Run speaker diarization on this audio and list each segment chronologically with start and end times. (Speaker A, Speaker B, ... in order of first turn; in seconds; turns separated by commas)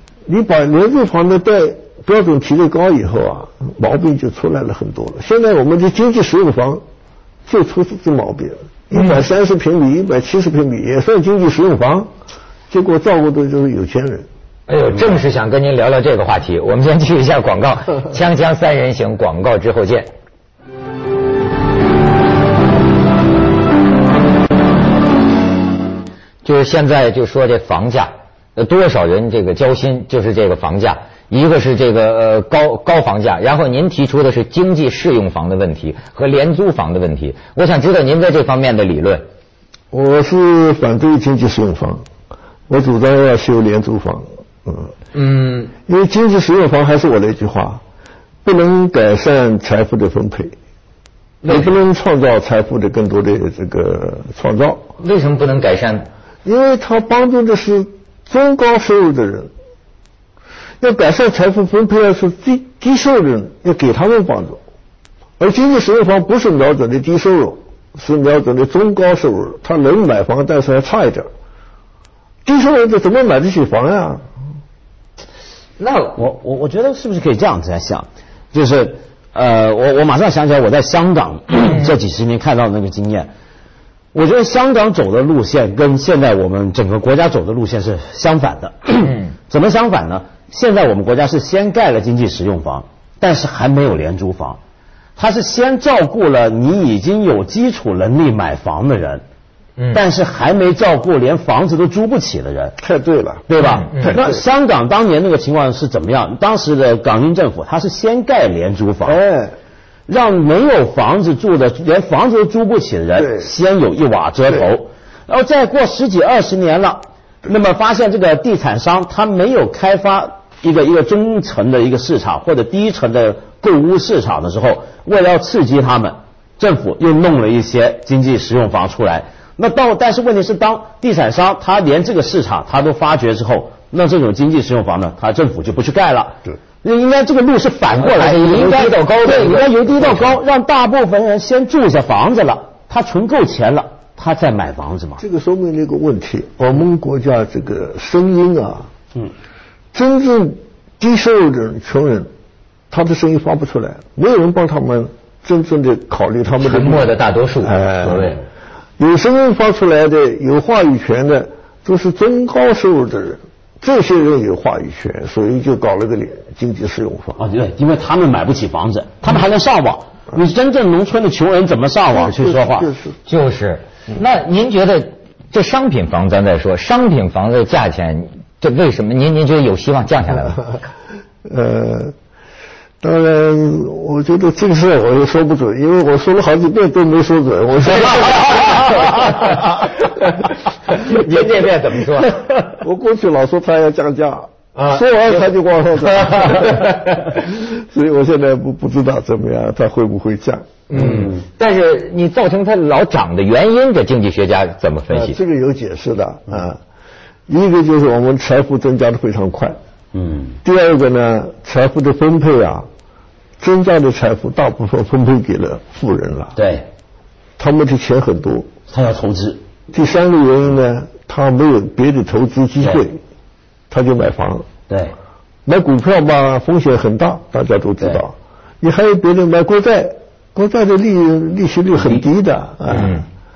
Speaker A: 0.2-6.8, Speaker A: 7.5-12.1, Speaker B: 8.9-9.2, Speaker A: 12.7-14.3, Speaker B: 14.7-20.1, Speaker B: 26.4-39.2, Speaker A: 39.9-42.0, Speaker A: 42.7-44.9, Speaker B: 45.1-45.7, Speaker A: 45.9-47.8, Speaker A: 48.4-50.5, Speaker B: 51.4-51.7, Speaker A: 51.4-54.9, Speaker B: 55.0-56.1, Speaker A: 56.4-59.5, Speaker A: 60.8-64.6, Speaker A: 65.4-71.3, Speaker A: 72.4-74.2, Speaker B: 75.8-76.1, Speaker C: 76.1-83.3, Speaker C: 84.1-94.6, Speaker C: 95.2-99.2, Speaker B: 99.8-100.0, Speaker C: 99.9-102.8, Speaker A: 102.8-104.4, Speaker C: 103.5-109.2, Speaker B: 103.6-104.2, Speaker A: 109.0-109.5, Speaker C: 110.1-145.2, Speaker A: 113.2-113.5, Speaker B: 138.0-140.4, Speaker A: 145.2-148.9, Speaker A: 149.9-152.3, Speaker A: 152.9-158.4, Speaker B: 156.6-158.4, Speaker A: 159.0-167.4, Speaker C: 167.4-172.9, Speaker A: 172.2-173.2, Speaker B: 173.3-180.7, Speaker A: 181.4-182.1, Speaker A: 183.0-189.5, Speaker B: 188.1-190.3, Speaker B: 190.9-192.7, Speaker A: 192.7-200.9, Speaker B: 194.8-197.2, Speaker B: 200.9-205.4, Speaker C: 200.9-201.3, Speaker A: 205.1-206.8, Speaker A: 207.5-209.8, Speaker C: 210.1-210.6, Speaker A: 210.6-212.9, Speaker A: 213.6-216.6, Speaker C: 216.6-216.9, Speaker A: 217.6-218.7, Speaker C: 218.9-219.6, Speaker A: 219.9-223.2, Speaker A: 223.9-224.7, Speaker C: 224.9-225.1, Speaker A: 225.7-233.2